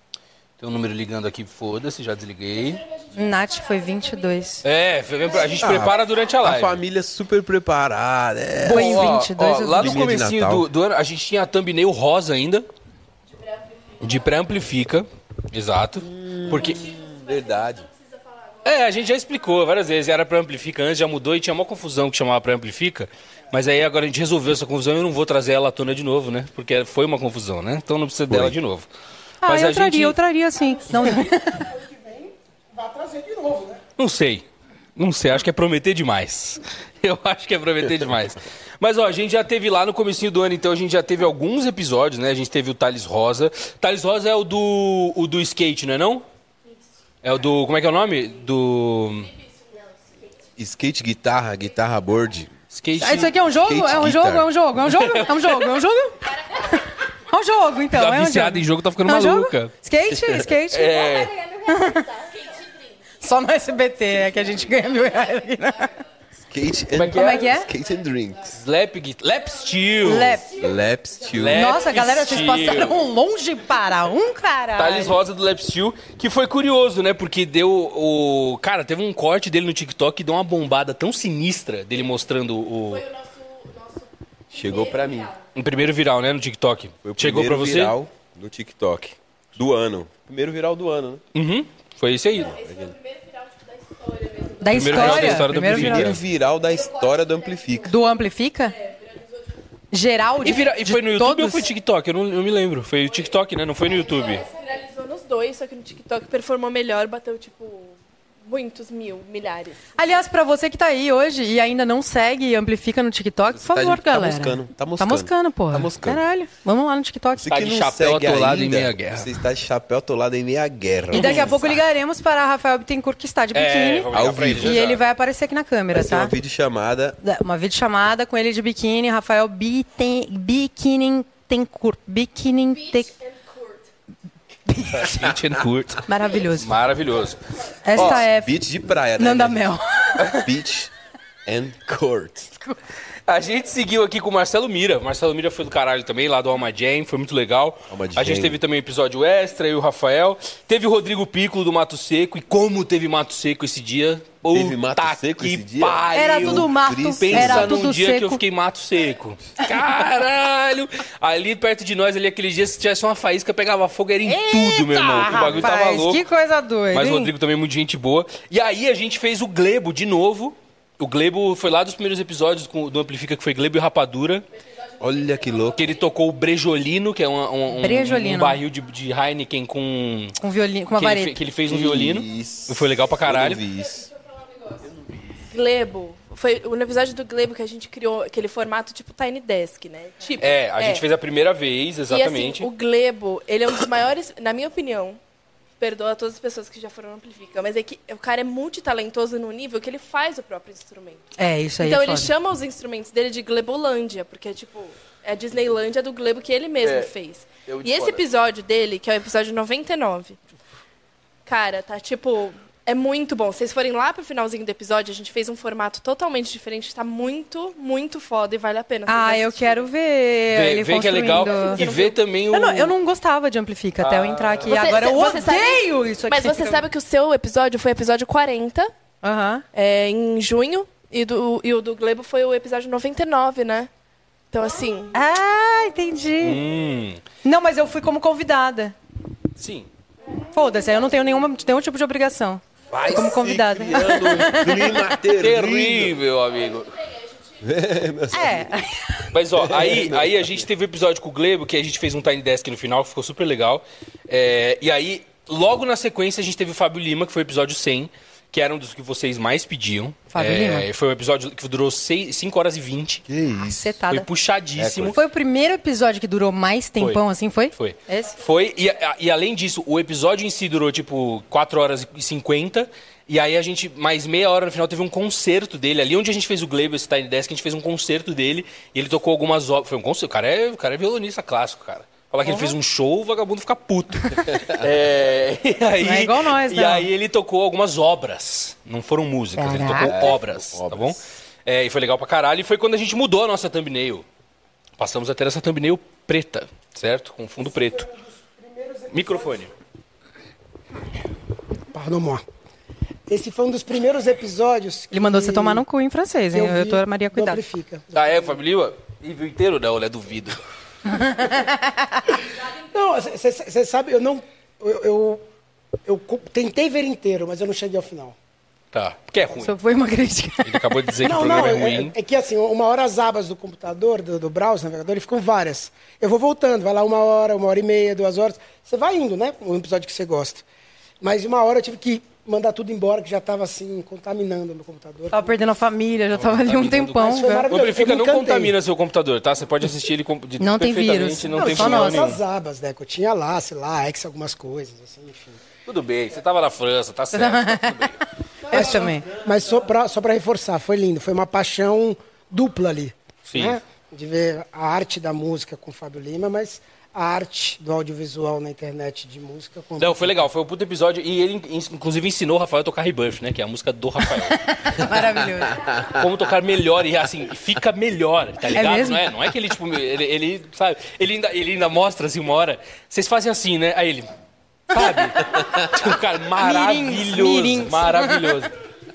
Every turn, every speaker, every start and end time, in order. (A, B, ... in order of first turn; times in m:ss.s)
0:00.6-0:02.8 A
0:03.2-0:04.6 B
0:04.6-0:06.8 A
0:05.4-0:10.7 C
0:08.6-0:12.7 A
0:08.7-0:10.1 B
0:13.4-0:14.0 D
0:14.0-0:16.8 A
0:16.0-0:17.9 C
0:16.9-0:18.6 D
0:18.6-0:28.9 A
0:28.3-0:28.6 C
0:29.4-0:31.7 B
0:29.4-0:30.2 A
0:30.6-0:33.8 E
0:34.0-0:34.4 A
0:35.0-0:46.2 A
0:47.2-0:49.3 A
0:49.6-0:49.9 D
0:50.6-0:52.5 C
0:52.7-0:53.4 A
0:53.0-0:56.2 B
0:53.5-0:54.5 C
0:54.9-0:55.7 A
0:57.3-1:01.0 B
0:57.9-0:59.7 A
1:00.7-1:01.4 A
1:01.7-1:02.1 B
1:03.2-1:05.9 B
1:06.5-1:08.6 C
1:07.0-1:07.5 A
1:07.2-1:07.7 B
1:08.5-1:10.5 A
1:10.0-1:10.5 B
1:10.5-1:11.7 C
1:11.3-1:13.0 A
1:11.5-1:15.2 B
1:14.8-1:23.0 A
1:22.9-1:25.4 D
1:24.5-1:25.3 C
1:25.6-1:28.0 A
1:27.0-1:31.2 C
1:31.4-1:32.6 A
1:32.4-1:34.9 D
1:32.5-1:32.9 C
1:34.6-1:36.1 B
1:34.7-1:36.2 A
1:34.9-1:37.9 C
1:37.8-1:38.8 B
1:39.9-1:41.7 B
1:40.4-1:44.4 A
1:44.4-1:49.9 D
1:50.0-1:57.5 B
1:53.6-1:56.2 C
1:57.4-2:01.8 C
1:57.5-1:59.3 A
2:01.1-2:06.3 B
2:01.2-2:01.5 A
2:03.5-2:05.0 A
2:04.1-2:05.0 C
2:05.9-2:07.2 C
2:07.2-2:13.1 B
2:13.1-2:13.8 D
2:14.7-2:15.1 B
2:14.9-2:16.0 A
2:16.1-2:16.7 B
2:16.6-2:17.4 A
2:17.8-2:18.6 B
2:17.9-2:20.9 C
2:19.2-2:20.2 B
2:21.5-2:22.5 C
2:23.3-2:46.2 A
2:27.9-2:28.6 C
2:34.5-2:37.8 C
2:36.1-2:38.4 B
2:44.3-2:47.3 B
2:46.9-2:54.4 A
2:55.0-2:55.9 C
2:55.7-3:00.4 A
2:57.8-2:58.6 B
3:00.4-3:01.4 B
3:01.0-3:03.6 A
3:01.7-3:04.1 C
3:05.5-3:11.0 D
3:10.4-3:12.7 A
3:12.1-3:15.2 D
3:15.8-3:21.2 D
3:21.4-3:22.3 B
3:21.8-3:30.4 D
3:26.8-3:27.1 A
3:27.7-3:28.2 A
3:31.5-3:39.9 D
3:39.1-3:41.8 B
3:40.5-3:42.9 A
3:41.5-3:42.2 D
3:42.5-3:46.8 B
3:44.0-3:44.8 A
3:44.7-3:48.9 D
3:49.2-3:49.6 B
3:49.7-3:53.9 D
3:54.5-3:55.2 D
3:55.1-3:56.6 B
3:56.4-3:57.2 A
3:57.4-3:59.0 B
3:59.6-3:59.9 A
4:00.5-4:05.0 B
4:02.9-4:06.2 C
4:05.4-4:06.9 A
4:07.6-4:08.7 C
4:08.3-4:09.0 B
4:09.3-4:23.2 A
4:09.6-4:10.6 C
4:20.3-4:20.9 B
4:23.3-4:24.0 C
4:23.6-4:24.3 B
4:24.1-4:25.2 A
4:24.8-4:25.2 C
4:25.1-4:28.4 B
4:27.8-4:54.2 A
4:42.4-4:42.7 B
4:46.0-4:47.1 B
4:49.6-4:50.2 B
4:49.9-4:51.2 C
4:55.0-4:58.1 A
4:57.6-4:59.7 E
4:59.1-4:59.7 A
5:01.9-5:02.4 E
5:03.3-5:05.8 E
5:05.1-5:07.6 B
5:06.5-5:08.6 E
5:08.1-5:10.6 A
5:11.2-5:12.2 B
5:12.9-5:15.4 E
5:16.1-5:18.4 E
5:18.9-5:19.7 A
5:19.6-5:20.9 B
5:20.6-5:22.1 A
5:21.2-5:30.6 E
5:31.2-5:35.5 E
5:35.3-5:37.7 B
5:36.4-5:42.4 A
5:37.2-5:38.8 E
5:40.6-5:42.3 B
5:41.6-5:45.6 E
5:45.9-5:48.2 A
5:47.3-5:48.0 B
5:48.7-5:49.3 B
5:48.7-6:00.3 E
5:53.5-5:53.8 A
6:00.0-6:04.6 A
6:04.6-6:05.8 B
6:06.1-6:14.3 A
6:08.8-6:09.2 B
6:14.9-6:18.7 A
6:16.6-6:18.5 B